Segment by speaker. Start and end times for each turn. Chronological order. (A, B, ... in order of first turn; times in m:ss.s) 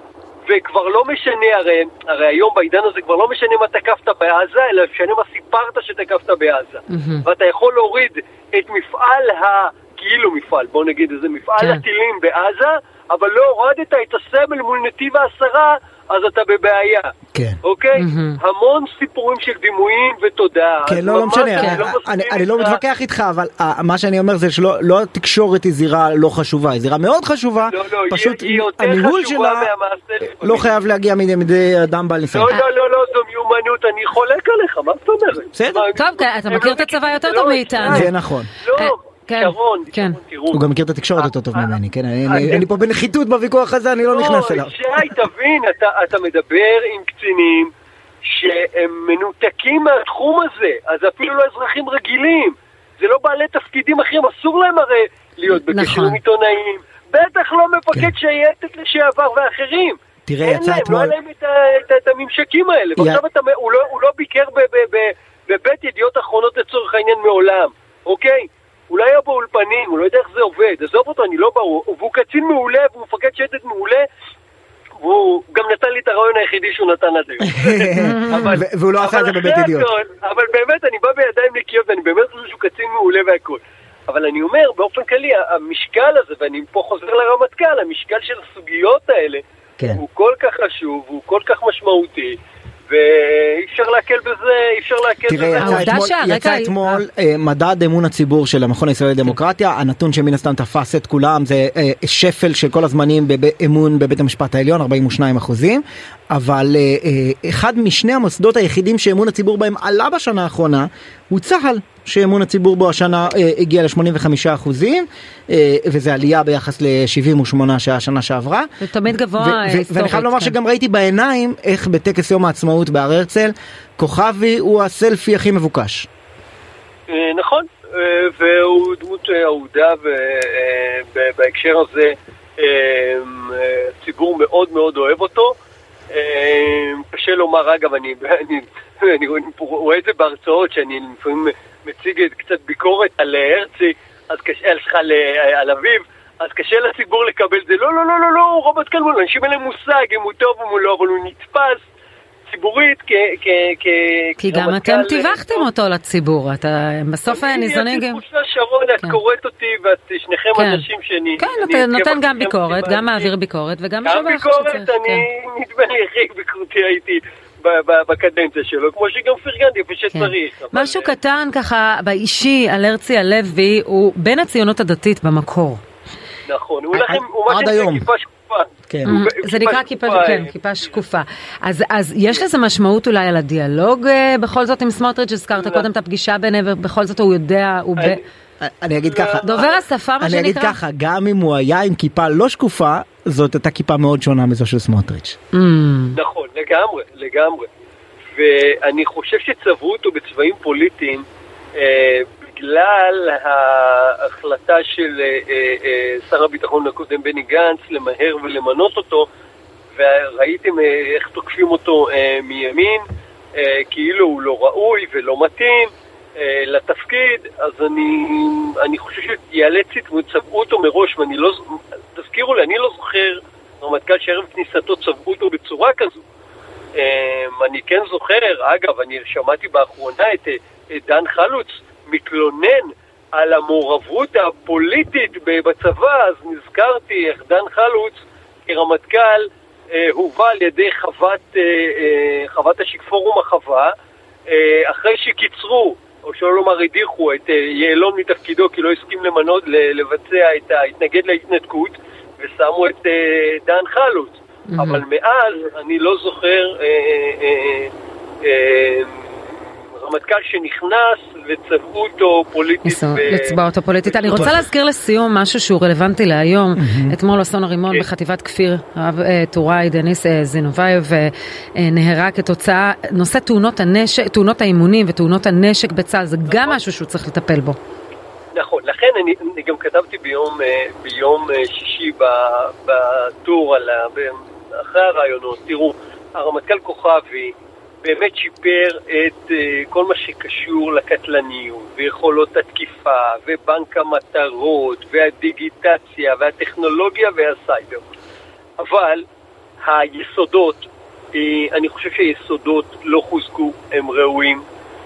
0:00.4-0:17.1 A
0:06.9-0:07.2 B
0:11.6-0:11.8 B
0:17.3-0:17.6 C
0:17.6-0:22.8 A
0:18.0-0:18.4 B
0:20.9-0:29.7 C
0:21.5-0:21.8 B
0:27.7-0:30.7 A
0:30.4-0:32.5 C
0:32.3-0:38.1 A
0:35.5-0:35.8 C
0:35.9-0:38.1 B
0:37.9-0:38.5 C
0:38.6-0:40.6 A
0:38.7-0:40.2 B
0:40.5-0:45.0 C
0:41.2-0:41.7 A
0:42.3-0:42.6 A
0:44.1-0:47.7 A
0:48.2-1:14.1 A
0:55.7-0:56.2 B
1:00.3-1:01.1 C
1:03.0-1:03.2 C
1:15.0-1:32.4 A
1:17.5-1:19.9 C
1:18.0-1:18.6 B
1:32.9-1:35.9 A
1:35.3-1:58.7 C
1:35.6-1:37.0 B
1:58.8-2:00.5 B
1:59.3-2:06.1 C
2:07.1-2:15.6 A
2:16.1-2:31.8 A
2:32.5-2:35.6 A
2:34.4-2:38.2 B
2:37.3-2:43.3 A
2:40.5-2:40.9 B
2:41.4-2:45.2 B
2:44.0-2:51.1 A
2:50.1-2:55.8 B
2:56.4-3:01.0 A
2:57.0-2:58.0 C
2:58.9-2:59.2 C
2:59.0-3:08.2 B
3:05.6-3:05.9 A
3:08.0-3:08.2 A
3:08.6-3:09.4 C
3:09.0-3:09.8 A
3:09.4-3:10.8 B
3:10.2-3:15.4 C
3:15.5-3:16.2 B
3:16.1-3:17.7 A
3:18.3-3:29.3 A
3:30.0-3:33.0 A
3:33.6-3:46.2 A
3:47.0-4:03.9 A
4:04.5-4:17.9 A
4:14.7-4:15.0 B
4:18.4-4:19.3 A
4:19.9-4:23.6 A
4:22.8-4:37.8 B
4:24.1-4:24.4 A
4:26.8-4:27.1 C
4:38.5-4:58.0 A
4:58.8-4:59.2 A
4:59.8-5:04.6 A